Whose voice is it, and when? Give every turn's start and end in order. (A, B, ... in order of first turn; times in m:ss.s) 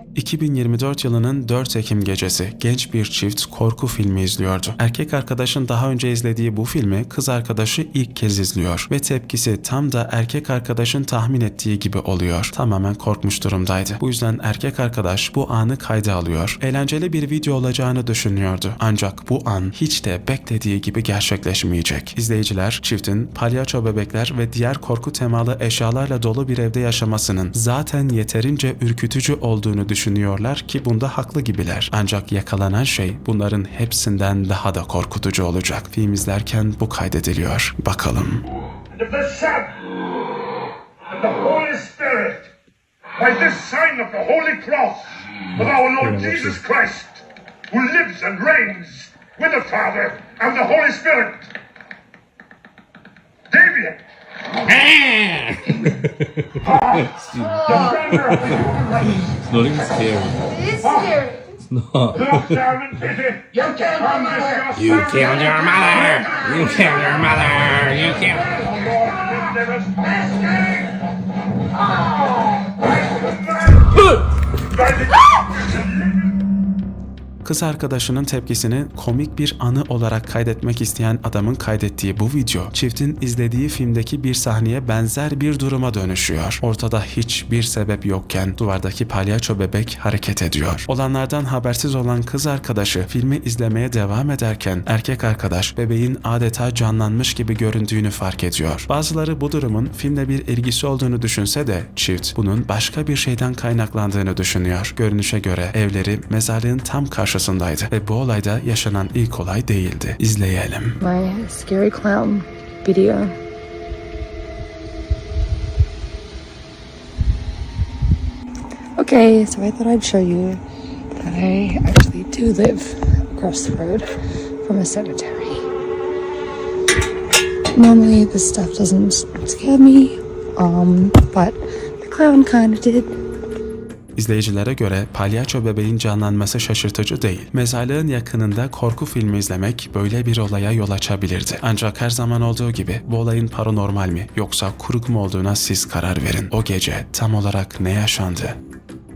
0:00.1-0:38.4 A
0:38.9-0:39.8 B
0:41.1-0:42.5 B
0:43.2-0:51.5 B
0:45.6-0:46.6 C
0:53.5-0:54.0 B
0:54.7-0:55.7 D
0:57.2-0:58.5 C
0:57.7-0:58.4 B
0:59.4-1:00.4 C
1:00.8-1:01.2 B
1:01.7-1:02.7 C
1:02.4-1:04.7 B
1:04.7-1:08.5 D
1:09.1-1:10.8 B
1:17.4-1:51.0 A
1:51.0-1:53.3 E
1:59.0-2:00.6 E
2:01.2-2:05.6 E
2:07.7-2:13.2 E
2:14.2-2:28.6 A